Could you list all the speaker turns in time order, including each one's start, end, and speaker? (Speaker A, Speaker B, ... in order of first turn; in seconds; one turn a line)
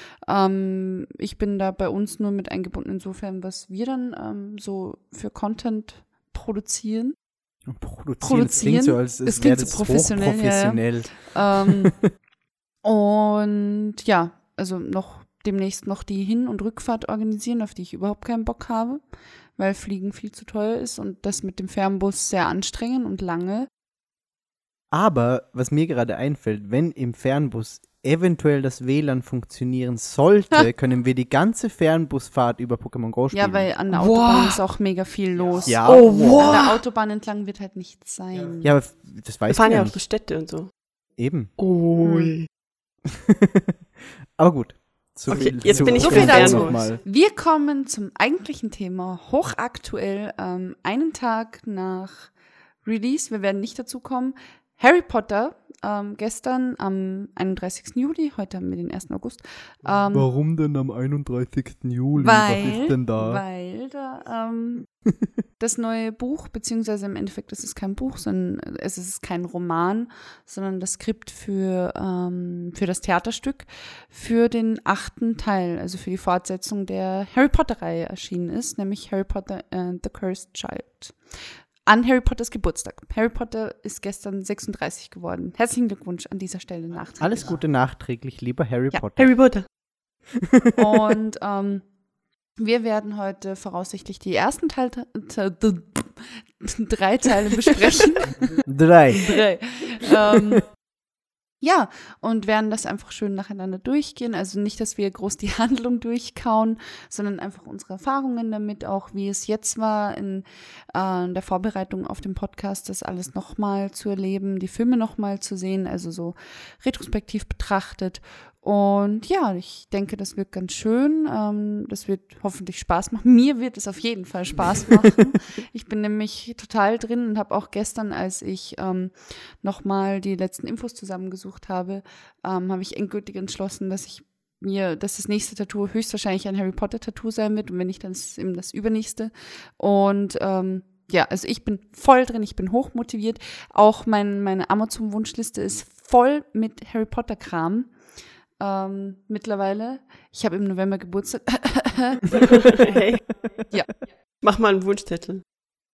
Speaker A: 0.3-7.2
Speaker B: 7.7-12.1
Speaker A: 8.2-12.0
Speaker A: 12.8-19.0
Speaker A: 19.6-23.7
Speaker B: 24.9-33.7
Speaker A: 33.3-38.8
Speaker C: 33.9-34.6
Speaker B: 35.6-36.6
Speaker C: 35.9-36.8
Speaker B: 38.6-40.0
Speaker C: 39.5-40.7
Speaker B: 41.2-41.5
Speaker C: 41.6-42.5
Speaker A: 42.0-42.4
Speaker B: 43.1-43.7
Speaker B: 44.4-47.0
Speaker C: 45.3-46.9
Speaker A: 46.0-60.3
Speaker B: 60.1-63.4
Speaker A: 62.2-64.9
Speaker A: 65.6-81.2
Speaker A: 81.8-87.6
Speaker B: 87.2-89.4
Speaker C: 89.2-89.7
Speaker A: 90.8-91.9
Speaker A: 92.6-98.5
Speaker B: 98.7-99.4
Speaker A: 99.1-100.7
Speaker A: 101.6-147.9
Speaker A: 148.6-153.0
Speaker C: 152.5-153.4
Speaker A: 153.7-153.9
Speaker C: 154.4-155.4